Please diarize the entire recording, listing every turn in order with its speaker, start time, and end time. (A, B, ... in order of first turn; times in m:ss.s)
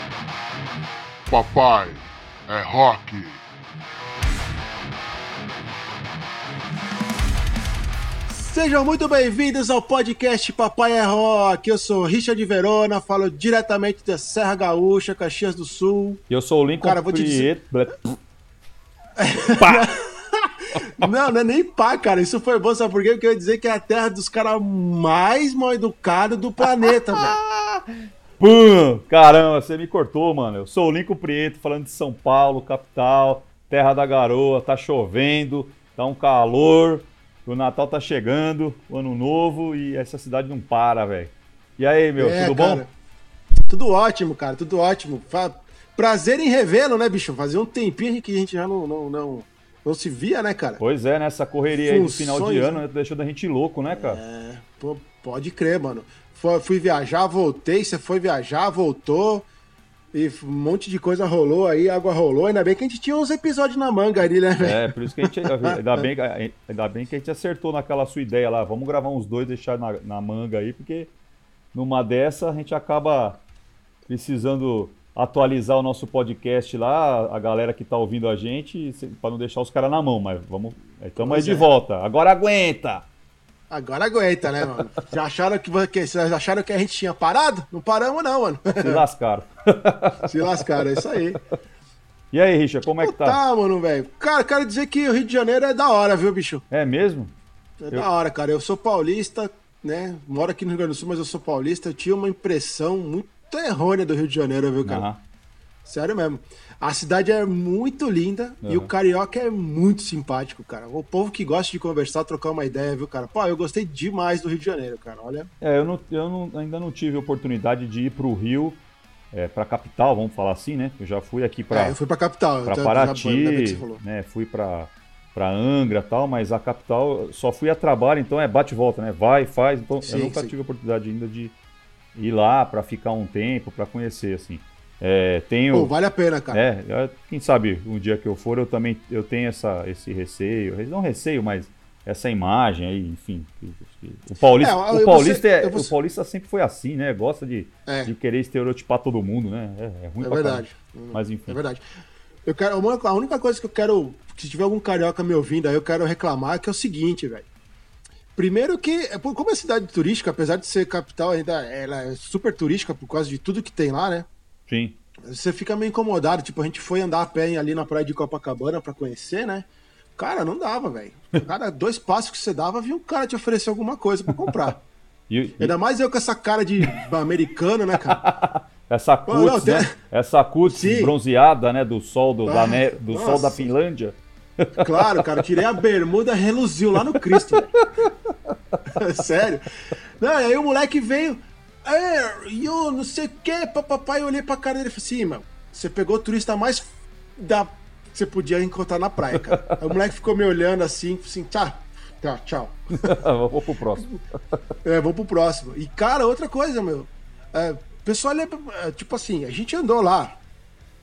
0:01.3-0:03.4 A
0:08.3-0:16.2 B
0:16.3-0:18.2 C
0:16.8-0:17.5 B
0:19.2-0:27.4 B
0:19.6-0:19.9 C
0:26.8-0:27.8 C
0:28.4-0:42.8 C
0:42.2-0:42.9 B
0:43.7-0:50.8 B
0:50.8-0:54.2 C
0:51.8-0:52.8 B
0:53.9-0:59.5 B
1:00.1-1:05.8 B
1:04.6-1:11.1 C
1:11.7-1:13.4 C
1:14.1-1:23.1 C
1:21.2-1:21.7 B
1:23.7-1:29.0 B
1:28.8-1:31.4 C
1:30.2-1:31.4 B
1:32.3-1:33.4 C
1:33.0-1:36.6 B
1:36.7-1:37.4 C
1:37.8-1:45.1 B
1:44.8-1:45.2 C
1:45.8-1:55.5 B
1:48.6-1:48.9 C
1:55.6-1:58.8 C
1:59.3-2:02.0 C
2:01.7-2:04.0 B
2:02.6-2:11.5 C
2:10.1-2:10.5 B
2:12.2-2:15.9 C
2:15.7-2:16.6 B
2:16.5-2:31.6 C
2:24.6-2:25.9 B
2:27.9-2:28.1 B
2:30.2-2:31.8 B
2:32.5-2:37.5 B
2:38.4-2:44.3 B
2:44.7-2:45.0 C
2:45.3-2:49.7 B
2:50.2-2:54.8 B
2:54.4-2:54.7 C
2:55.3-2:55.7 C
2:55.6-2:58.2 B
2:58.1-3:05.6 C
2:59.3-3:00.0 B
3:00.7-3:01.1 B
3:02.5-3:03.7 B
3:04.8-3:07.8 B
3:07.1-3:09.0 C
3:08.9-3:23.2 B
3:19.3-3:19.7 C
3:23.0-3:24.6 C
3:24.8-3:30.4 B